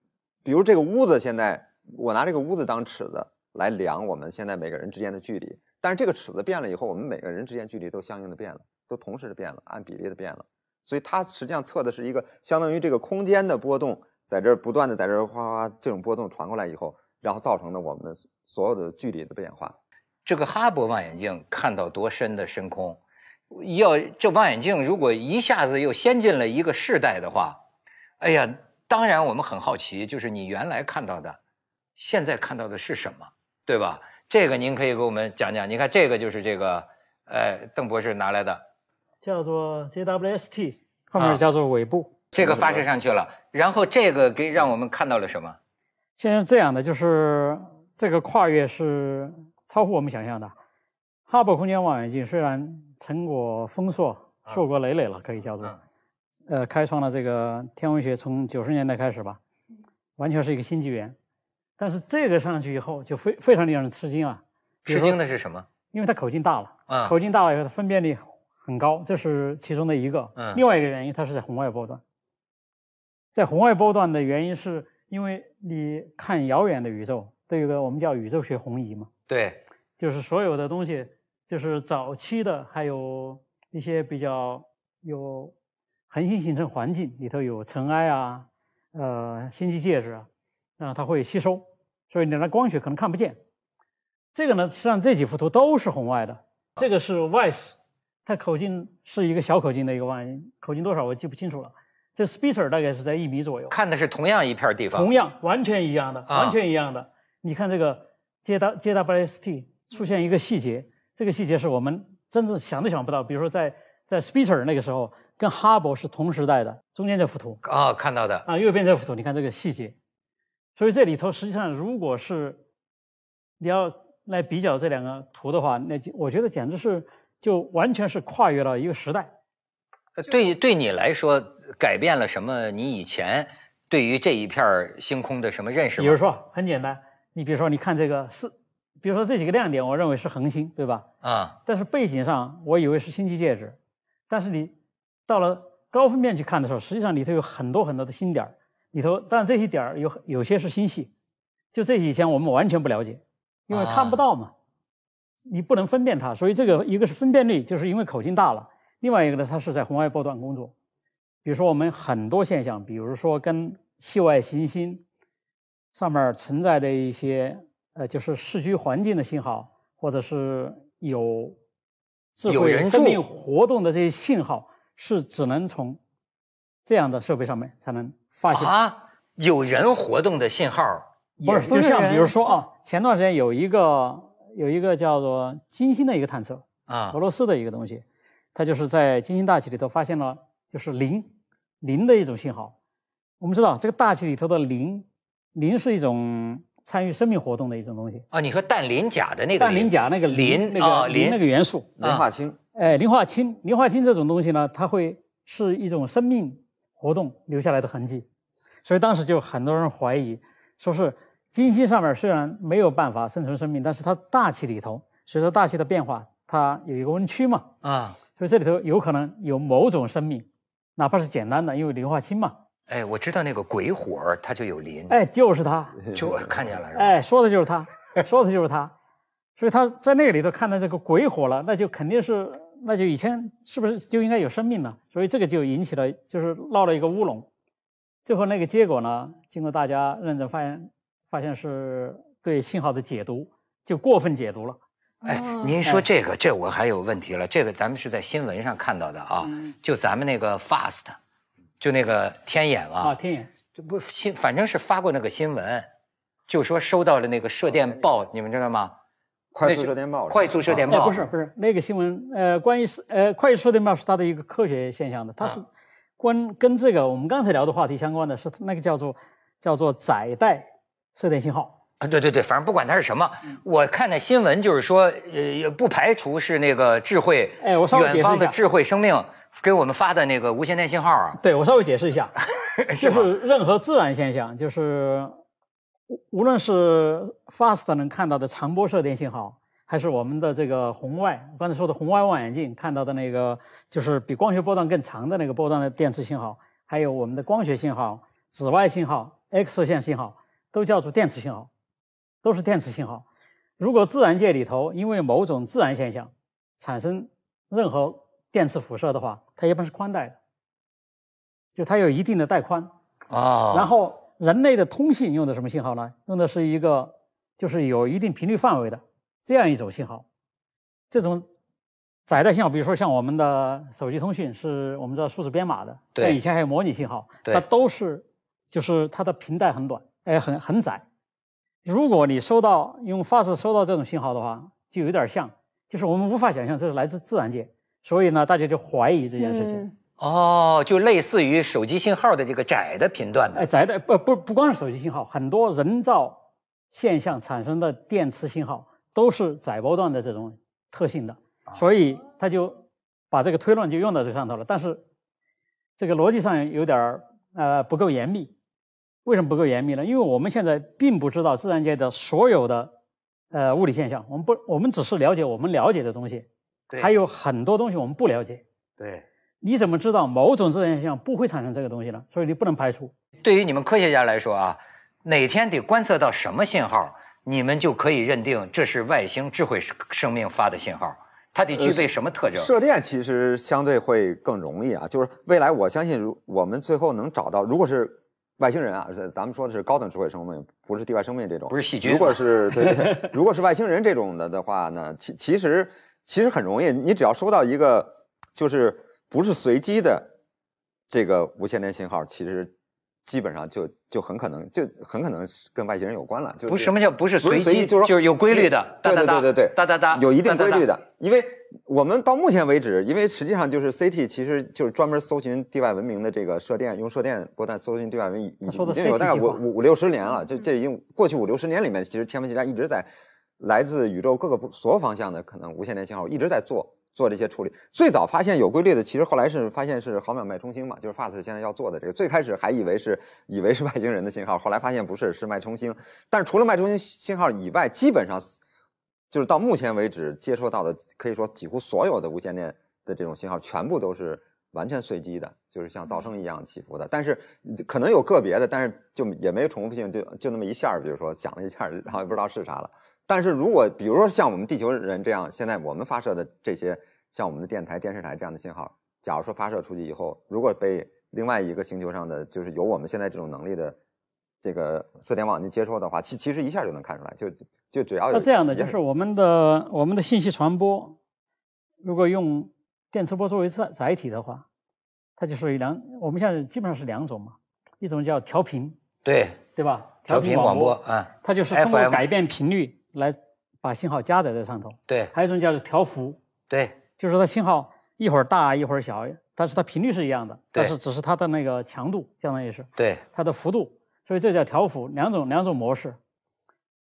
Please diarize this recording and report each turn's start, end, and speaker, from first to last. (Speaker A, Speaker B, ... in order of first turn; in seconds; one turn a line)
Speaker A: 0.5-19.8
Speaker B: 20.3-23.0
Speaker B: 23.5-27.6
Speaker B: 28.2-31.4
Speaker B: 32.0-38.6
Speaker C: 39.2-42.2
Speaker B: 42.3-45.6
Speaker A: 42.4-42.9
Speaker C: 46.2-50.5
Speaker C: 51.3-55.8
Speaker C: 56.5-59.4
Speaker C: 60.2-61.2
Speaker C: 61.8-65.2
Speaker B: 64.9-65.7
Speaker C: 65.9-72.0
Speaker B: 66.9-67.2
Speaker B: 70.4-70.6
Speaker C: 73.3-79.1
Speaker B: 79.3-79.6
Speaker C: 80.0-85.5
Speaker C: 86.1-90.3
Speaker C: 90.8-93.4
Speaker C: 94.3-103.8
Speaker B: 103.7-105.1
Speaker C: 104.9-117.6
Speaker B: 106.3-106.6
Speaker B: 117.6-118.5
Speaker C: 118.5-120.0
Speaker C: 120.8-122.6
Speaker C: 123.6-129.3
Speaker B: 130.2-136.2
Speaker C: 136.0-141.1
Speaker B: 141.2-141.6
Speaker C: 141.7-143.8
Speaker C: 144.3-144.7
Speaker C: 145.3-151.1
Speaker C: 151.7-154.5
Speaker B: 153.7-154.2
Speaker C: 155.5-160.7
Speaker C: 161.4-165.0
Speaker C: 165.9-171.6
Speaker C: 172.4-176.0
Speaker B: 172.5-173.2
Speaker C: 176.8-178.7
Speaker B: 178.5-181.8
Speaker C: 181.4-188.0
Speaker D: 181.7-182.6
Speaker B: 186.9-187.2
Speaker C: 188.6-191.3
Speaker C: 191.8-192.7
Speaker C: 193.4-198.2
Speaker B: 198.3-201.4
Speaker C: 199.6-201.9
Speaker A: 202.0-202.6
Speaker B: 202.0-202.3
Speaker C: 202.8-208.3
Speaker C: 208.8-217.7
Speaker B: 217.8-218.2
Speaker C: 218.4-220.5
Speaker C: 221.0-222.6
Speaker B: 222.9-225.2
Speaker C: 225.1-226.0
Speaker B: 226.1-227.2
Speaker C: 226.9-228.9
Speaker C: 229.6-237.5
Speaker C: 238.2-244.8
Speaker D: 245.2-245.8
Speaker B: 245.2-251.2
Speaker B: 251.8-253.2
Speaker C: 253.0-253.5
Speaker B: 253.8-255.9
Speaker B: 256.5-258.9
Speaker A: 259.5-261.2
Speaker B: 259.6-261.2
Speaker C: 260.9-265.7
Speaker C: 266.2-271.8
Speaker B: 272.0-281.4
Speaker C: 277.6-278.6
Speaker C: 281.4-282.3
Speaker B: 282.6-283.3
Speaker C: 282.9-285.4
Speaker C: 286.1-301.7
Speaker C: 302.4-303.2
Speaker C: 303.8-310.4
Speaker C: 311.8-312.9
Speaker B: 313.3-313.9
Speaker C: 313.7-320.2
Speaker C: 321.1-321.5
Speaker C: 322.3-331.0
Speaker B: 326.1-326.4
Speaker C: 331.9-339.8
Speaker D: 339.4-339.9
Speaker B: 340.2-343.7
Speaker C: 343.6-346.4
Speaker C: 346.9-355.0
Speaker C: 356.0-358.5
Speaker C: 359.2-362.9
Speaker C: 363.5-366.5
Speaker C: 367.0-368.6
Speaker B: 369.0-369.2
Speaker C: 369.6-373.1
Speaker B: 373.4-382.7
Speaker A: 381.8-400.3
Speaker B: 391.7-393.2
Speaker A: 401.1-402.7
Speaker A: 403.2-423.1
Speaker B: 406.7-410.9
Speaker C: 418.7-419.6
Speaker A: 423.6-438.6
Speaker A: 439.3-464.0
Speaker A: 464.6-469.0
Speaker C: 468.3-471.2
Speaker C: 472.0-474.6
Speaker C: 475.4-479.0
Speaker B: 479.2-479.6
Speaker C: 479.8-486.4
Speaker B: 480.3-482.2
Speaker B: 486.7-487.0
Speaker C: 487.2-496.2
Speaker B: 493.0-493.2